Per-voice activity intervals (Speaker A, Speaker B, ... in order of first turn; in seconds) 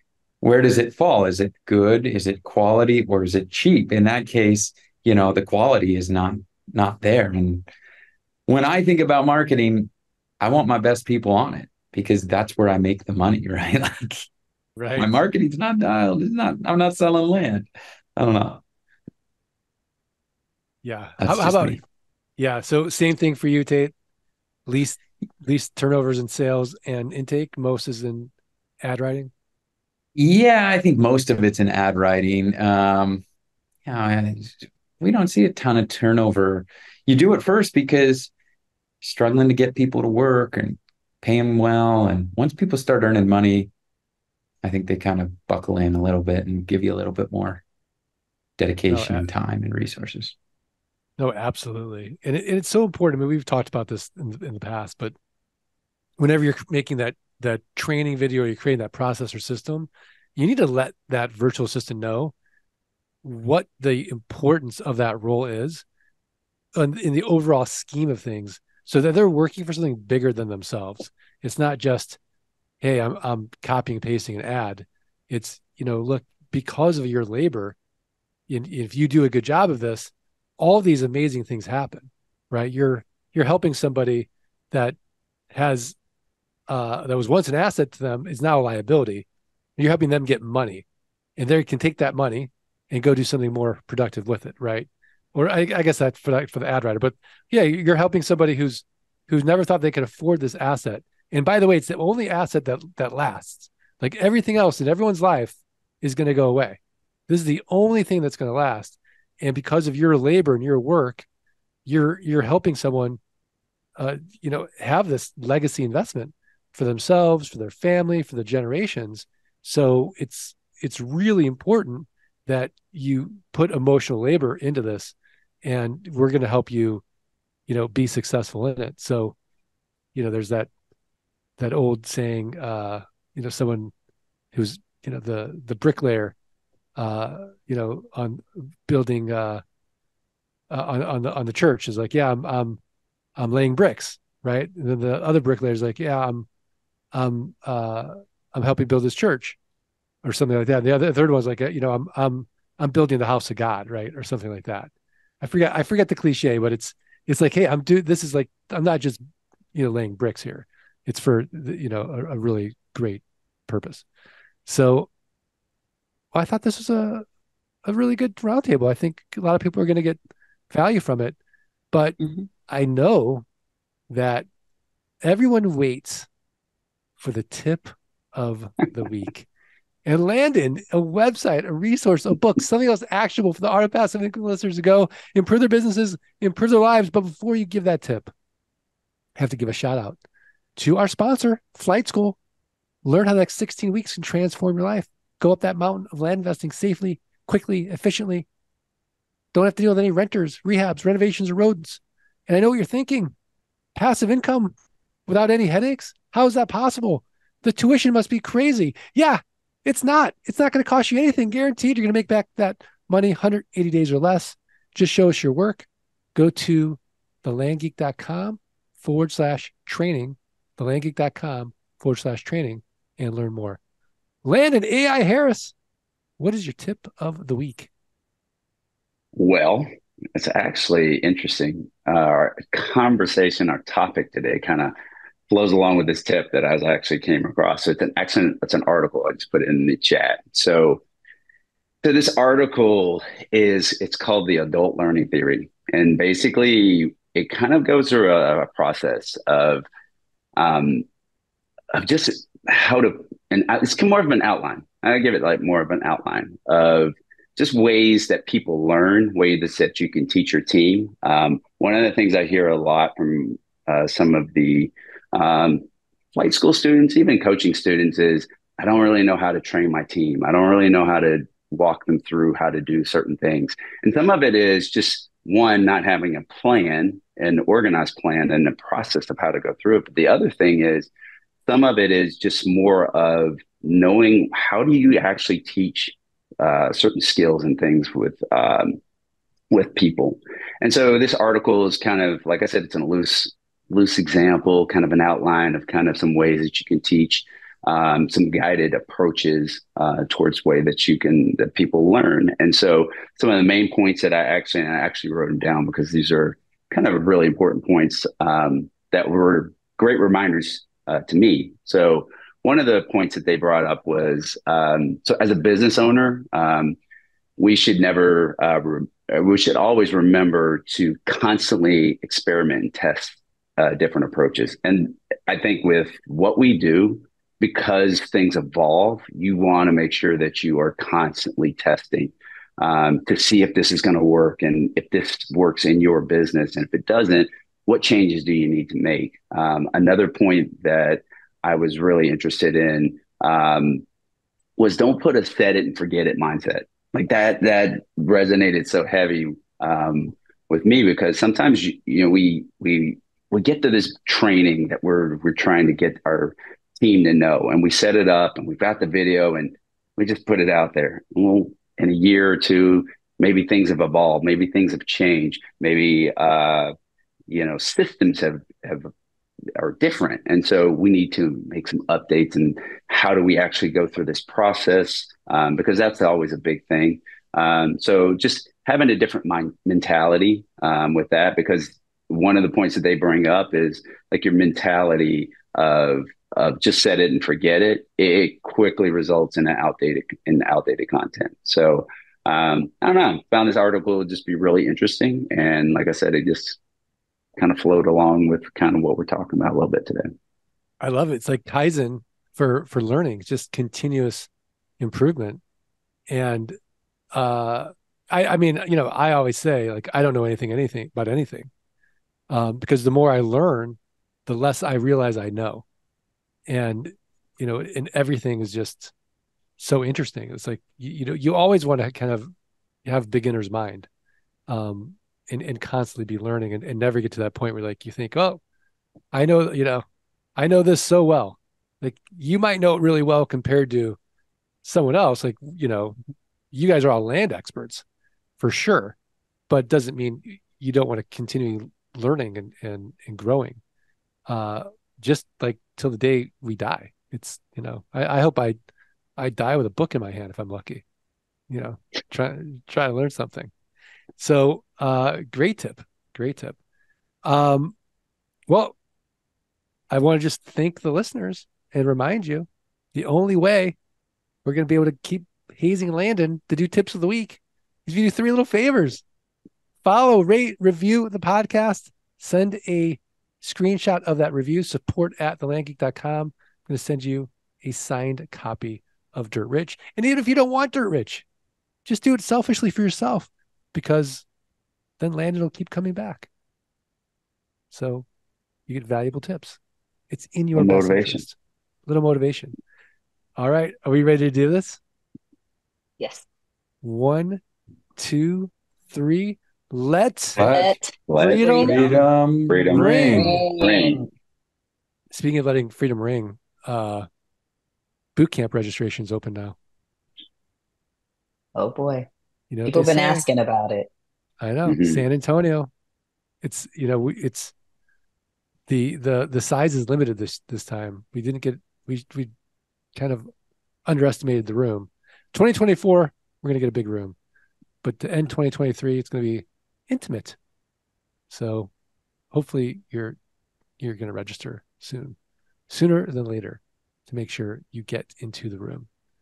Speaker A: 0.4-7.7, 8.5-14.3, 15.0-18.6, 21.2-21.8, 30.1-33.2, 33.9-38.3, 39.0-43.7, 44.6-47.6, 48.6-50.4, 500.6-501.0, 501.7-503.6
Speaker B: 14.8-15.1, 20.8-21.8, 22.4-23.9, 24.7-29.3, 48.9-49.3, 51.2-55.1, 56.2-62.3, 63.2-65.8, 66.8-72.2, 72.8-77.8, 78.5-85.0, 85.5-86.0, 86.7-89.3, 89.8-90.8, 91.4-111.3, 111.9-113.2, 114.0-127.0, 127.7-129.3, 130.2-130.7, 131.6-133.9, 134.5-136.3, 137.0-139.6, 140.7-142.8, 143.4-146.5, 147.1-149.6, 150.2-164.1, 164.7-165.1, 166.3-167.2, 167.8-170.2, 170.7-171.4, 171.9-173.4, 174.1-174.5, 175.2-176.3, 177.2-179.5, 180.1-188.3, 189.4-190.2, 190.8-192.4, 193.0-198.5, 199.5-203.3, 203.9-204.7, 205.3-223.8, 224.4-225.7, 226.4-227.9, 401.0-405.6, 406.3-406.8, 407.3-411.7, 412.5-415.9, 416.7-419.1, 419.8-422.5, 423.1-424.1, 424.7-428.6, 429.3-430.1, 430.6-434.2, 434.8-436.2, 436.7-438.0, 438.6-439.1, 439.7-443.8, 444.5-448.8, 449.4-451.0, 451.7-453.7, 454.4-456.8, 457.4-457.9, 458.7-458.9, 460.1-464.0, 464.6-469.2, 470.0-481.4, 482.1-484.4, 485.2-486.5, 487.9-488.3, 488.9-489.8, 490.3-491.6, 492.1-492.8, 493.6-495.0, 497.0-497.6, 498.2-500.6, 501.3-502.1, 502.9-503.6, 505.3-507.3, 508.4-509.8, 512.7-513.5, 514.6-515.9, 516.6-517.7, 518.9-522.5, 523.1-523.5, 524.1-527.4, 528.0-530.6, 531.5-531.9, 532.5-533.4, 534.0-535.4, 535.9-539.1
Speaker C: 229.4-234.9, 235.5-241.0, 242.0-249.8, 250.6-251.1, 251.9-281.1, 281.7-289.0, 289.7-317.0, 317.6-344.0, 344.8-366.9, 367.5-369.1, 369.8-396.8, 397.6-400.3, 490.8-491.4, 501.3-504.2, 514.9-515.2
Speaker D: 496.2-496.4, 500.6-502.0, 503.1-504.3, 511.8-512.3, 512.9-514.1